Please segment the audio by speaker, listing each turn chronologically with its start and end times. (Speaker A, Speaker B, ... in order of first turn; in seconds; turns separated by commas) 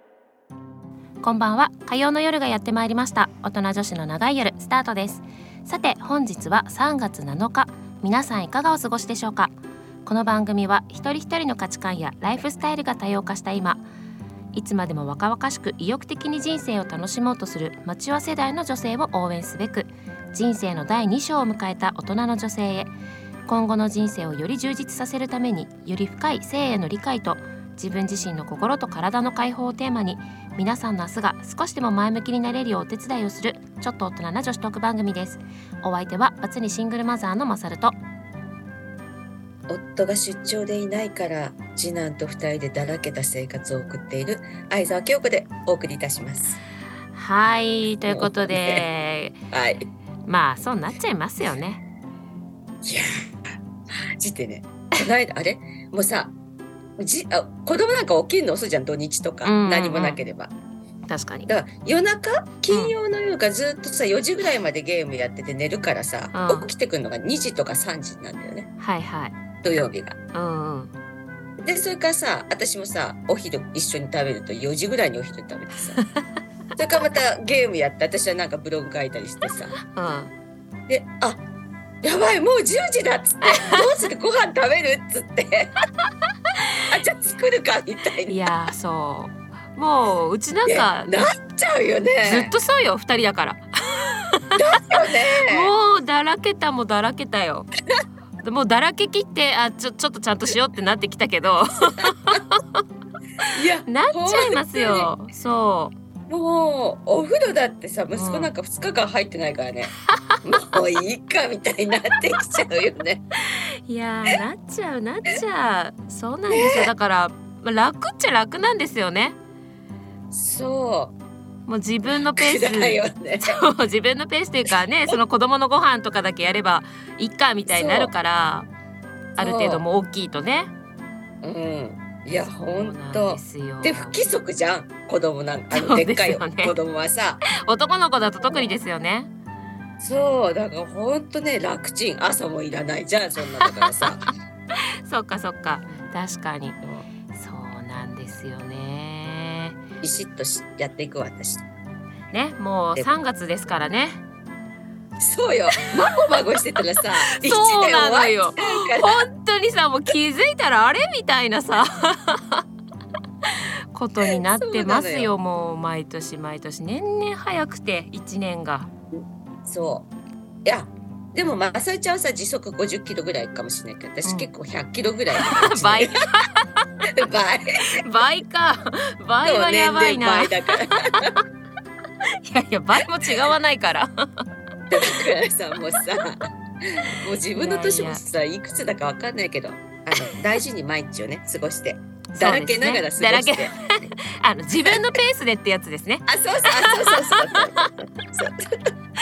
Speaker A: 1.2-9.5, Speaker A: 10.1-13.8, Speaker A: 14.6-22.9, Speaker A: 23.5-38.0, Speaker B: 39.7-46.6, Speaker A: 47.1-49.4, Speaker B: 48.1-48.9, Speaker B: 49.5-49.9, Speaker A: 50.3-51.8, Speaker B: 52.8-56.3, Speaker B: 57.0-60.5, Speaker A: 59.4-60.2, Speaker A: 61.1-61.5, Speaker B: 61.5-68.7, Speaker A: 62.7-63.0, Speaker A: 66.3-66.7, Speaker A: 68.8-69.4, Speaker B: 69.6-70.2, Speaker A: 70.3-70.9, Speaker B: 71.6-76.0, Speaker B: 76.8-79.7, Speaker A: 79.9-80.3, Speaker B: 80.9-81.4, Speaker B: 82.0-85.8, Speaker A: 83.5-83.9, Speaker B: 86.9-88.4, Speaker A: 88.3-91.3, Speaker B: 90.7-92.5, Speaker A: 92.2-94.5, Speaker B: 94.5-95.7, Speaker A: 95.5-97.7, Speaker A: 98.4-102.6, Speaker B: 103.5-105.1, Speaker A: 103.9-105.9, Speaker B: 106.3-113.2, Speaker A: 108.1-108.5, Speaker A: 113.9-119.3, Speaker B: 116.5-116.9, Speaker B: 120.3-121.1, Speaker A: 121.7-128.7, Speaker B: 122.1-123.5, Speaker B: 127.7-128.1, Speaker A: 129.4-130.7, Speaker B: 129.4-129.8, Speaker B: 131.4-137.5, Speaker A: 132.6-134.2, Speaker A: 135.7-136.8, Speaker A: 137.5-139.3, Speaker B: 138.4-138.7, Speaker B: 140.0-144.2, Speaker A: 143.7-144.3, Speaker A: 145.1-146.8, Speaker A: 147.3-149.8, Speaker B: 150.0-151.7, Speaker A: 152.3-154.2, Speaker B: 155.2-159.2, Speaker A: 157.3-162.6, Speaker A: 163.4-168.9, Speaker B: 164.3-165.3, Speaker B: 169.7-170.1, Speaker B: 170.7-176.1, Speaker A: 174.2-174.5, Speaker A: 175.4-176.7, Speaker B: 177.1-177.8, Speaker A: 177.8-181.4, Speaker B: 179.4-181.3, Speaker A: 182.4-184.1, Speaker B: 184.9-193.9, Speaker A: 187.5-188.2, Speaker A: 192.3-197.9, Speaker B: 194.8-195.2, Speaker B: 196.3-198.6